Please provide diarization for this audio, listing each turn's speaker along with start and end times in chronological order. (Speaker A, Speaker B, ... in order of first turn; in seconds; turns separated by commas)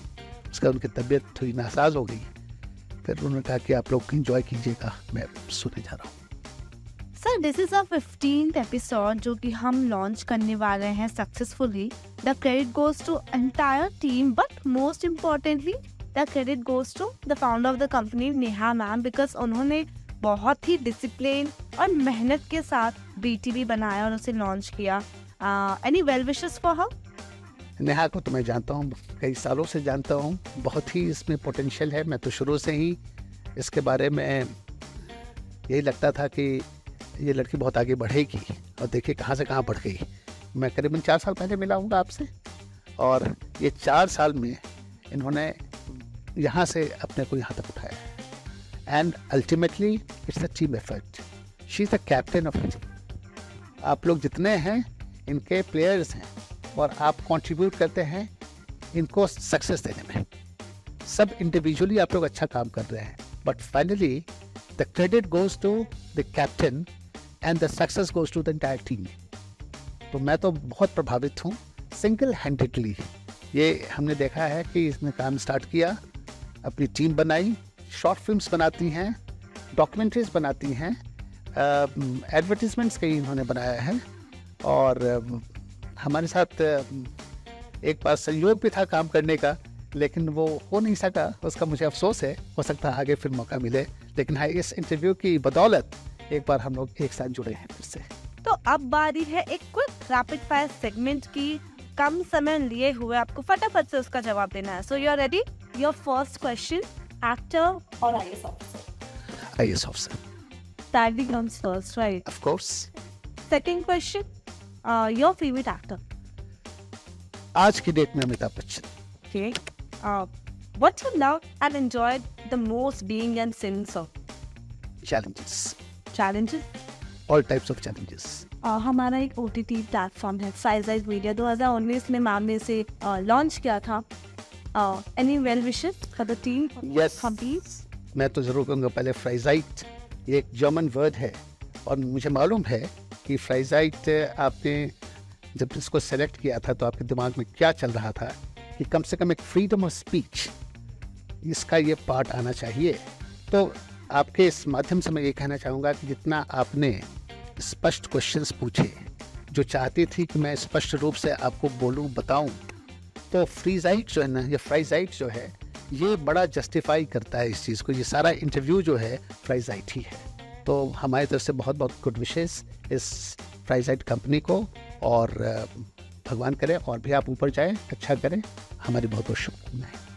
Speaker A: 0.5-2.3, Speaker A: 3.0-6.2, Speaker B: 7.2-26.9, Speaker A: 27.8-33.0, Speaker A: 33.5-34.5, Speaker A: 35.7-42.3, Speaker A: 43.0-48.1, Speaker A: 48.9-52.9, Speaker A: 53.8-58.3, Speaker A: 58.9-60.2, Speaker A: 61.0-66.9, Speaker A: 67.4-69.1, Speaker A: 70.1-76.0, Speaker A: 76.6-79.2, Speaker A: 79.7-81.0, Speaker A: 81.5-84.0, Speaker A: 84.6-85.5, Speaker A: 86.0-87.1, Speaker A: 87.8-98.0, Speaker B: 98.4-108.8, Speaker A: 109.5-110.2, Speaker B: 110.9-112.2, Speaker A: 112.2-112.9, Speaker B: 113.5-114.3, Speaker B: 114.8-116.0, Speaker A: 117.5-118.9, Speaker B: 119.3-124.1, Speaker A: 125.0-125.8, Speaker B: 126.1-126.7, Speaker A: 127.3-128.4, Speaker B: 128.6-134.0, Speaker B: 134.7-137.8, Speaker A: 136.8-137.4, Speaker A: 138.1-145.0, Speaker A: 145.5-150.5, Speaker A: 151.4-162.6, Speaker A: 163.3-180.0